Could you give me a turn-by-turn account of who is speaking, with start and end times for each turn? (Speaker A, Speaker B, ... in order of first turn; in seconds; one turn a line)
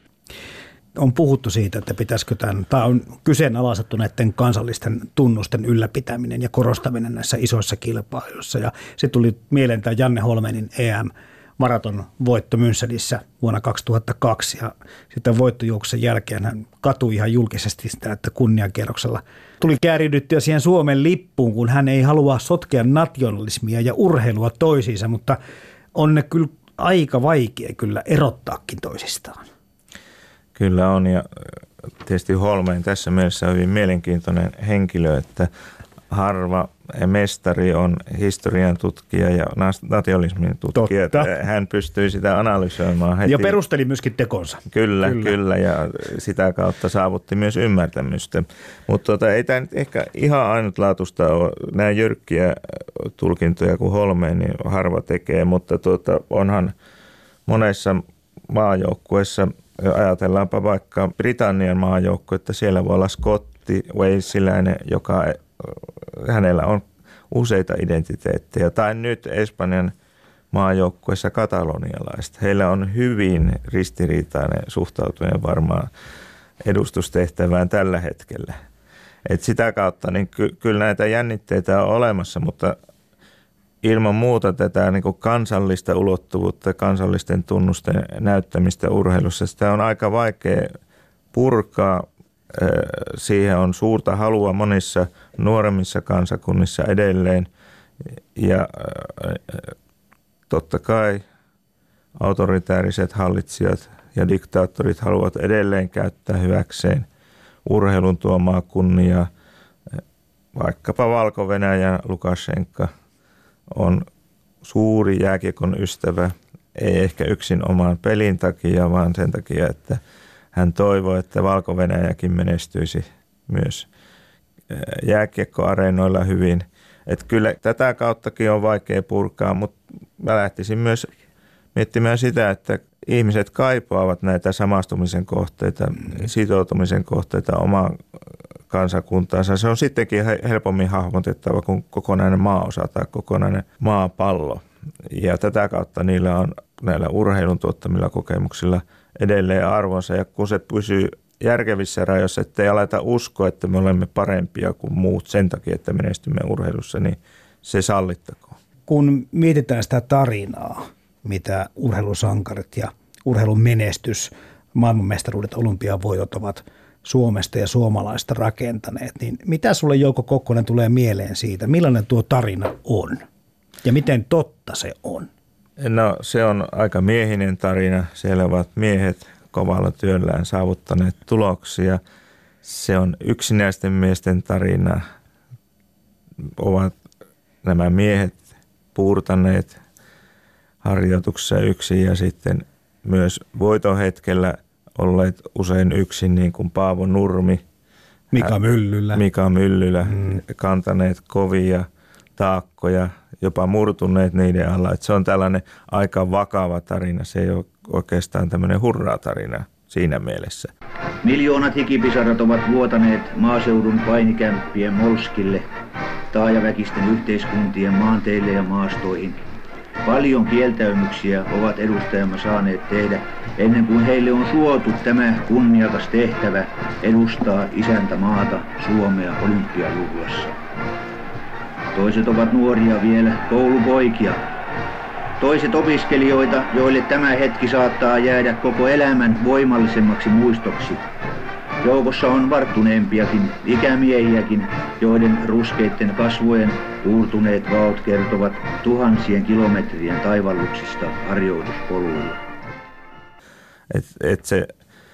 Speaker A: 0.9-25.4
Speaker A: 25.9-29.4
Speaker B: 30.6-31.5
Speaker B: 32.0-35.5
Speaker B: 36.1-43.5
Speaker A: 40.7-41.3
Speaker A: 43.2-45.3
Speaker B: 44.7-56.7
Speaker B: 57.5-69.9
Speaker B: 70.5-75.9
Speaker B: 76.6-78.6
Speaker B: 79.3-82.7
Speaker B: 83.8-90.7
Speaker B: 91.3-97.5
Speaker B: 98.4-99.7
Speaker B: 100.5-101.2
Speaker B: 102.2-107.0
Speaker B: 107.7-109.3
Speaker B: 110.5-112.9
Speaker B: 113.7-114.0
Speaker B: 114.6-120.0
Speaker B: 120.5-123.9
Speaker B: 124.7-131.1
Speaker B: 131.7-138.0
Speaker B: 138.7-158.6
Speaker A: 158.9-173.2
Speaker A: 173.8-175.3
Speaker B: 175.8-182.0
Speaker B: 182.6-185.0
Speaker B: 186.6-186.9
Speaker B: 187.6-188.4
Speaker B: 188.9-189.8
Speaker B: 190.8-197.6
Speaker A: 198.3-199.2
Speaker B: 199.1-210.7
Speaker A: 200.1-200.3
Speaker C: 211.2-215.7
Speaker C: 216.3-219.5
Speaker C: 220.1-230.6
Speaker C: 231.9-234.4
Speaker C: 235.4-241.0
Speaker C: 241.8-252.4
Speaker B: 253.9-254.7